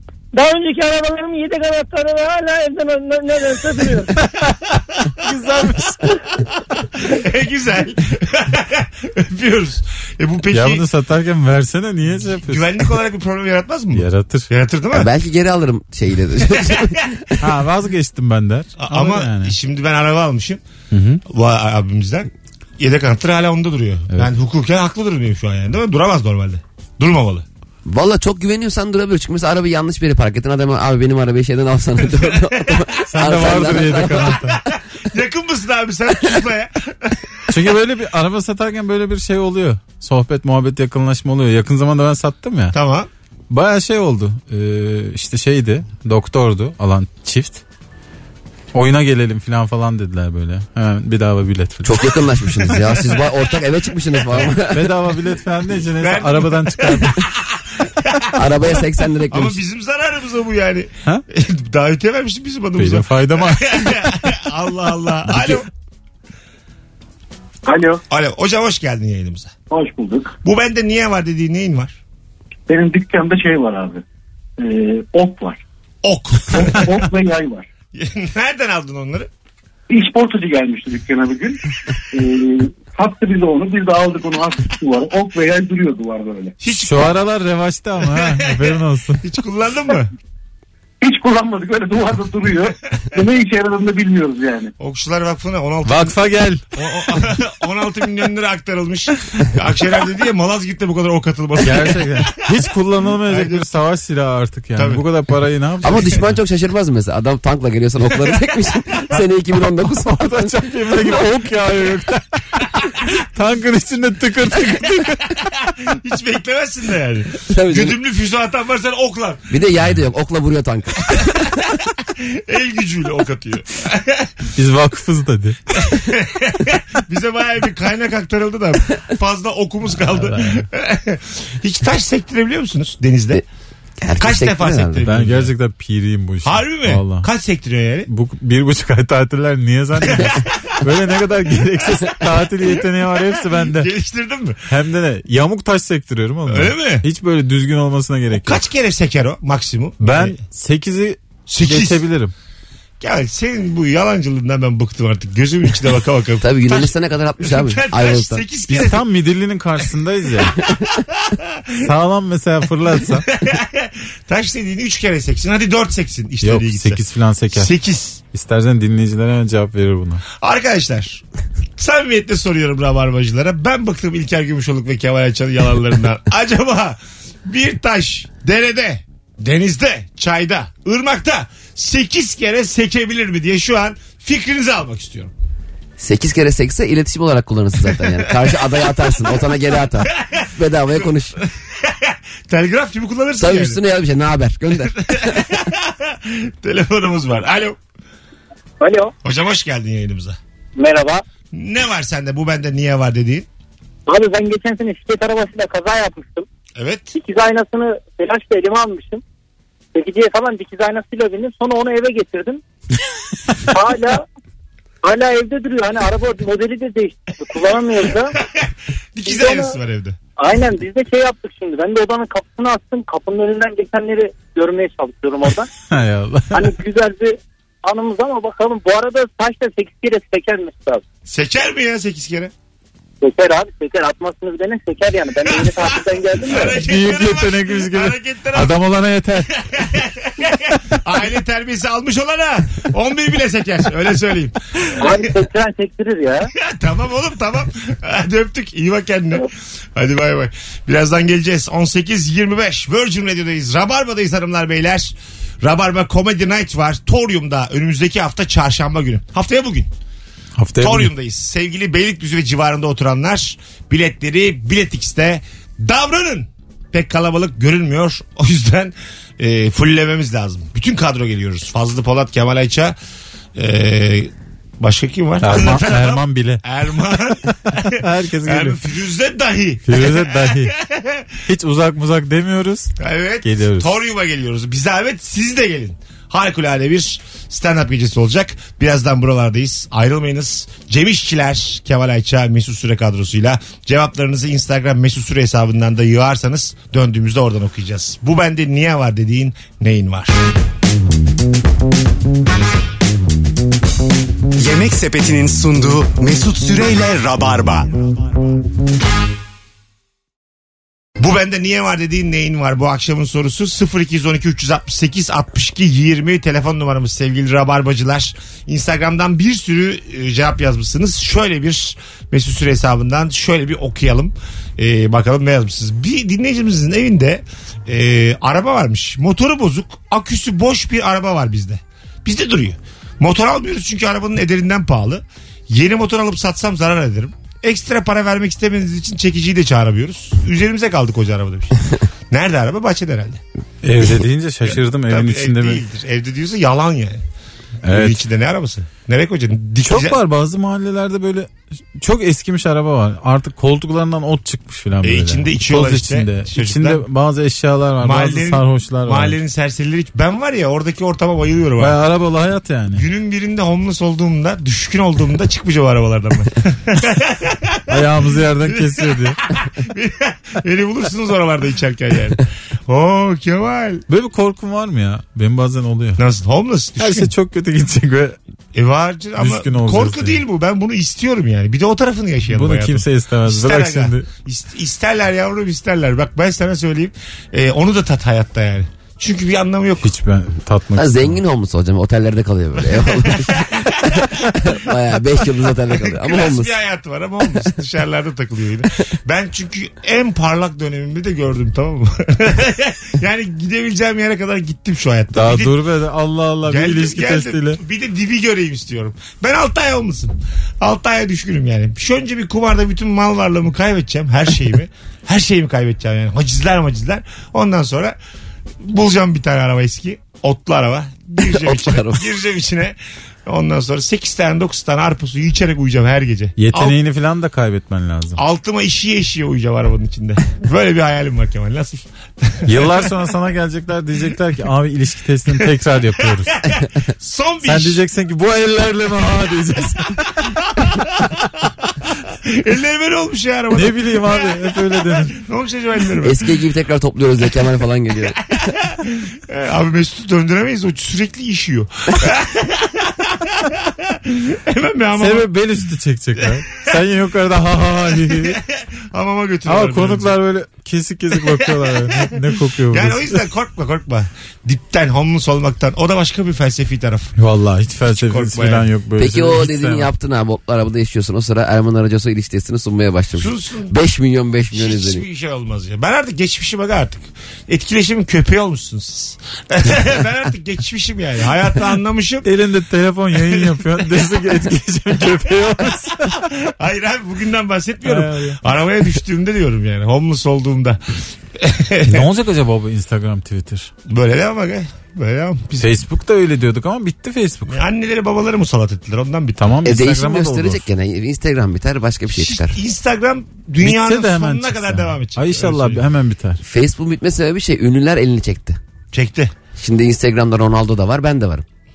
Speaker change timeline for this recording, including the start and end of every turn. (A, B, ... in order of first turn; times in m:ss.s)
0:00.3-0:04.1 A
0:05.2-0:06.1 B
0:06.9-0:10.8 C
0:10.5-0:12.8 B
0:12.4-0:15.1 C
0:13.9-0:14.5 B
0:14.9-0:17.4 D
0:16.6-0:16.9 C
0:17.4-0:19.6 B
0:18.8-0:20.6 C
0:20.9-0:21.2 B
0:21.2-0:27.4 C
0:27.8-0:34.6 D
0:32.4-0:33.7 C
0:33.1-0:34.6 B
0:35.0-0:37.3 C
0:37.5-0:42.8 B
0:42.7-0:43.1 C
0:43.5-0:47.6 B
0:48.7-0:52.8 B
0:51.8-0:54.9 D
0:54.7-0:57.2 B
0:56.0-0:58.4 C
0:58.4-0:59.6 D
0:59.3-1:05.7 C
1:02.8-1:04.1 B
1:07.6-1:08.0 E
1:08.1-1:09.5 C
1:09.7-1:10.4 E
1:10.4-1:12.0 C
1:12.7-1:14.0 E
1:14.6-1:15.6 E
1:16.0-1:16.9 C
1:16.6-1:17.6 E
1:18.0-1:19.3 C
1:19.9-1:21.6 E
1:22.1-1:26.6 E
1:26.6-1:27.2 C
1:26.8-1:29.2 B
1:28.1-1:30.1 C
1:31.0-1:34.7 E
1:34.8-1:36.2 C
1:35.8-1:36.6 B
1:36.8-1:42.3 C
1:41.6-1:46.2 B
1:43.3-1:43.6 C
1:44.8-1:45.0 C
1:45.8-1:51.1 D
1:49.8-1:52.6 B
1:53.2-1:55.4 B
1:55.8-1:59.5 C
1:57.5-1:58.0 D
1:59.5-2:01.6 D
2:02.2-2:04.3 C
2:04.6-2:05.6 B
2:05.7-2:13.4 C
2:10.1-2:10.6 B
2:14.0-2:15.1 D
2:14.2-2:15.5 C
2:15.0-2:17.3 B
2:16.4-2:18.1 C
2:18.1-2:23.9 B
2:20.0-2:20.5 C
2:23.6-2:24.6 C
2:24.7-2:28.6 B
2:26.5-2:27.0 C
2:28.4-2:30.4 C
2:30.0-2:32.3 B
2:31.5-2:32.0 C
2:33.0-2:39.0 C
2:36.4-2:38.4 D
2:38.7-2:40.6 B
2:41.2-2:41.8 C
2:41.8-2:43.2 B
2:43.3-2:48.2 C
2:46.4-2:47.7 B
2:48.3-2:50.2 B
2:50.4-2:51.2 C
2:51.8-3:05.3 C
3:06.0-3:11.4 D
3:10.1-3:11.1 C
3:11.8-3:13.8 C
3:13.4-3:15.4 D
3:15.1-3:17.8 C
3:18.8-3:19.1 F
3:19.2-3:20.4 C
3:20.8-3:21.2 F
3:21.5-3:23.5 C
3:24.1-3:26.5 F
3:26.8-3:27.1 C
3:27.1-3:29.2 F
3:29.9-3:32.6 F
3:33.7-3:34.2 F
3:35.0-3:38.4 F
3:38.6-3:40.2 C
3:39.2-3:39.8 F
3:40.4-3:45.7 F
3:45.9-3:46.7 B
3:46.5-3:51.0 F
3:51.3-3:52.5 C
3:53.2-3:56.8 F
3:55.6-3:58.8 C
3:56.7-3:59.5 B
3:59.6-4:04.6 C
4:05.0-4:06.5 F
4:06.6-4:19.9 C
4:20.6-4:21.1 B
4:20.8-4:32.9 C
4:33.6-4:41.3 C
4:35.4-4:36.6 B
4:37.2-4:38.8 B
4:39.9-4:40.7 B
4:41.4-4:44.0 B
4:43.0-5:00.4 C
5:04.6-5:08.0 G
5:11.2-5:41.8 C
5:42.3-5:43.4 C
5:43.8-5:45.8 B
5:44.7-5:47.2 C
5:47.8-5:48.2 B
5:47.9-5:50.2 C
5:49.8-5:59.4 B
5:55.0-5:57.0 C
5:58.0-6:02.0 C
6:01.8-6:03.0 B
6:03.0-6:08.0 C
6:07.9-6:09.4 B
6:08.6-6:14.0 C
6:14.1-6:16.2 B
6:16.2-6:17.3 C
6:17.0-6:18.4 B
6:18.8-6:30.1 C
6:19.4-6:20.4 B
6:22.5-6:24.3 B
6:30.0-6:31.4 B
6:31.0-6:36.7 D
6:33.1-6:33.9 C
6:35.9-6:45.8 C
6:45.3-6:47.8 B
6:46.7-6:58.2 C
6:58.8-7:07.0 C
7:01.4-7:02.3 D
7:06.6-7:08.4 B
7:08.4-7:13.0 C
7:12.6-7:16.5 B
7:16.4-7:18.0 C
7:17.6-7:20.4 B
7:20.8-7:21.4 C
7:22.4-7:26.4 C
7:23.7-7:25.3 B
7:26.2-7:28.7 D
7:28.8-7:35.5 C
7:35.2-7:38.6 B
7:38.3-7:40.3 C
7:39.6-7:43.4 B
7:41.4-7:42.4 C
7:42.9-7:47.3 C
7:47.4-7:50.1 B
7:48.2-7:48.9 C
7:49.2-7:55.2 D
7:53.4-7:53.9 C
7:54.7-8:02.4 C
8:02.4-8:06.4 B
8:06.7-8:11.0 C
8:08.0-8:08.6 B
8:11.6-8:12.3 C
8:12.1-8:13.9 B
8:14.1-8:15.9 C
8:15.8-8:17.8 B
8:17.7-8:19.7 C
8:19.6-8:20.8 B
8:19.8-8:22.8 D
8:22.4-8:26.0 C
8:23.8-8:26.6 B
8:26.6-8:28.8 D
8:29.1-8:29.5 C
8:29.8-8:31.6 D